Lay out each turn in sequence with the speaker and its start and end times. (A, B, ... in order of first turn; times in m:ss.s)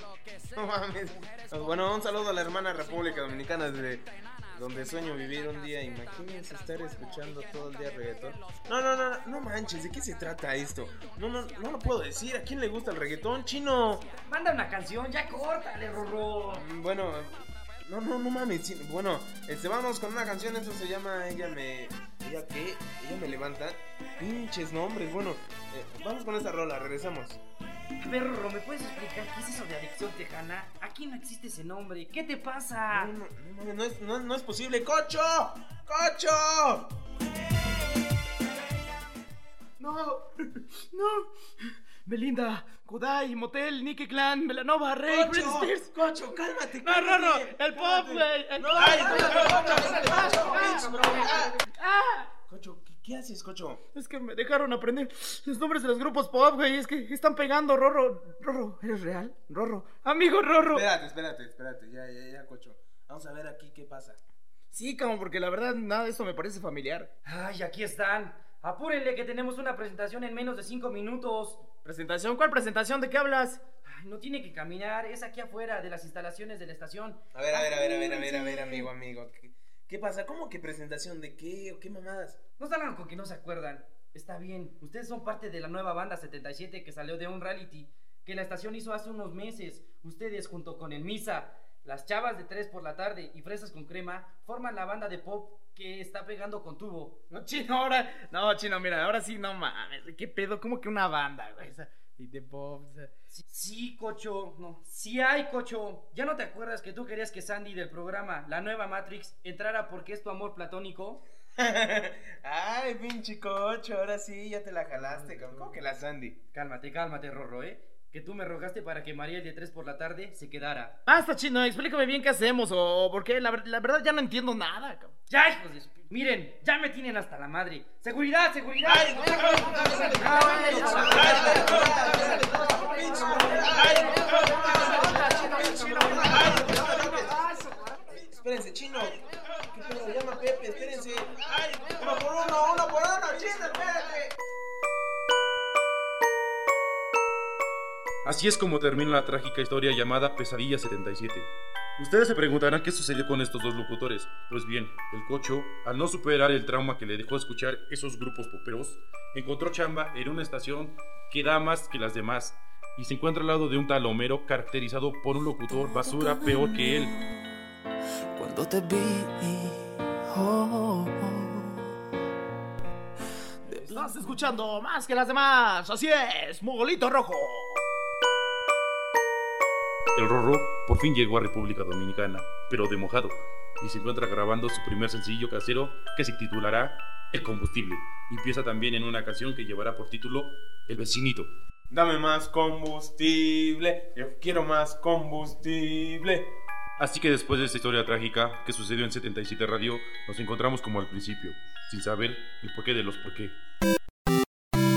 0:00.5-0:14.1 A
0:14.2-0:16.6 B
0:16.5-0:27.4 A
0:28.0-0:33.1 B
0:32.9-0:36.9 A
0:39.8-0:40.2 A
0:40.8-0:41.3 C
0:42.1-0:45.9 C
0:45.1-0:51.5 A
0:46.8-0:52.3 C
0:52.5-0:53.8 A
0:53.9-1:00.8 C
1:00.7-1:04.2 A
1:04.7-1:07.1 C
1:07.2-1:11.6 B
1:11.8-1:13.6 C
1:13.8-1:18.9 B
1:17.3-1:22.4 A
1:22.6-1:37.2 B
1:37.3-1:43.1 C
1:43.3-1:51.2 B
1:51.6-1:56.4 A
1:55.0-1:55.8 C
1:56.5-2:01.0 B
2:01.1-2:05.1 C
2:05.3-2:14.2 B
2:09.9-2:17.9 C
2:10.9-2:17.4 A
2:18.1-2:24.4 A
2:28.2-2:47.1 D
2:45.7-2:47.2 E
2:48.4-2:51.8 E
2:53.6-2:57.8 C
3:00.1-3:11.5 D
3:11.9-3:16.5 A
3:17.0-3:23.6 D